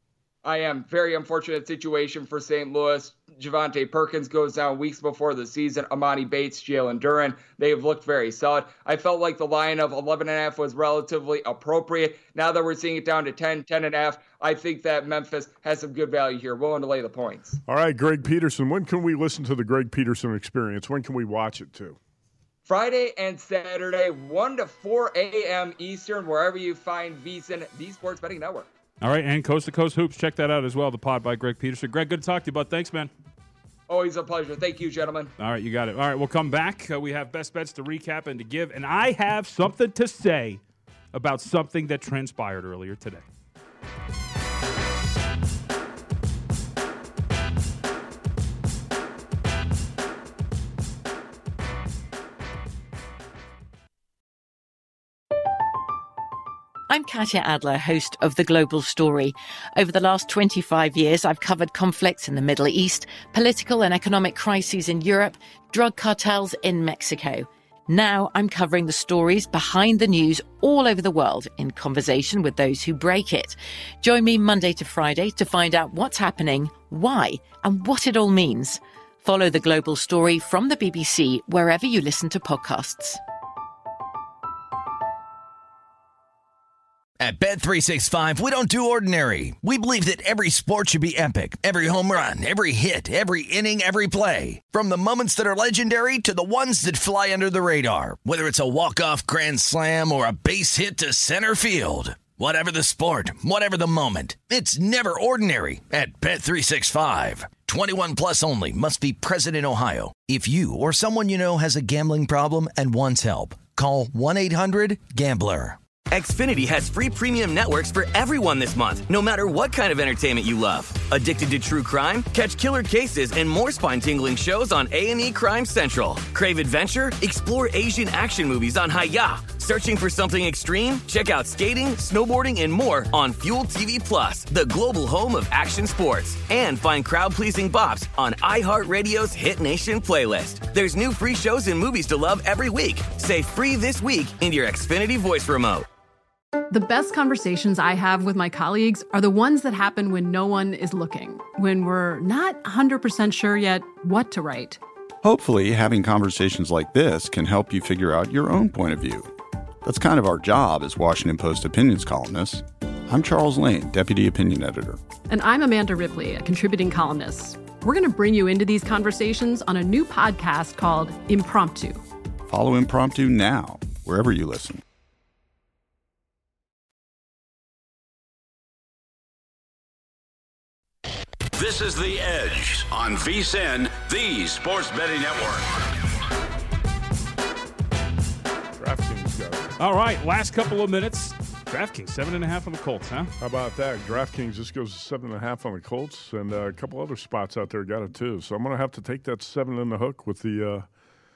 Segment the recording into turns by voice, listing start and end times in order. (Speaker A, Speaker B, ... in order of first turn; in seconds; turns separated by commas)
Speaker A: 0.4-17.6, Speaker B: 17.7-22.0, Speaker A: 22.7-28.7, Speaker C: 29.0-33.1, Speaker A: 33.9-35.3, Speaker C: 35.4-40.6, Speaker C: 41.1-43.2, Speaker D: 56.9-83.2, Speaker E: 87.2-115.8, Speaker F: 116.1-145.9, Speaker G: 146.7-154.8, Speaker H: 155.2-159.3, Speaker H: 159.8-165.0, Speaker G: 165.3-172.0, Speaker H: 172.5-174.8, Speaker I: 181.5-186.0, Speaker B: 188.8-189.7, Speaker C: 189.8-193.3, Speaker B: 193.4-200.9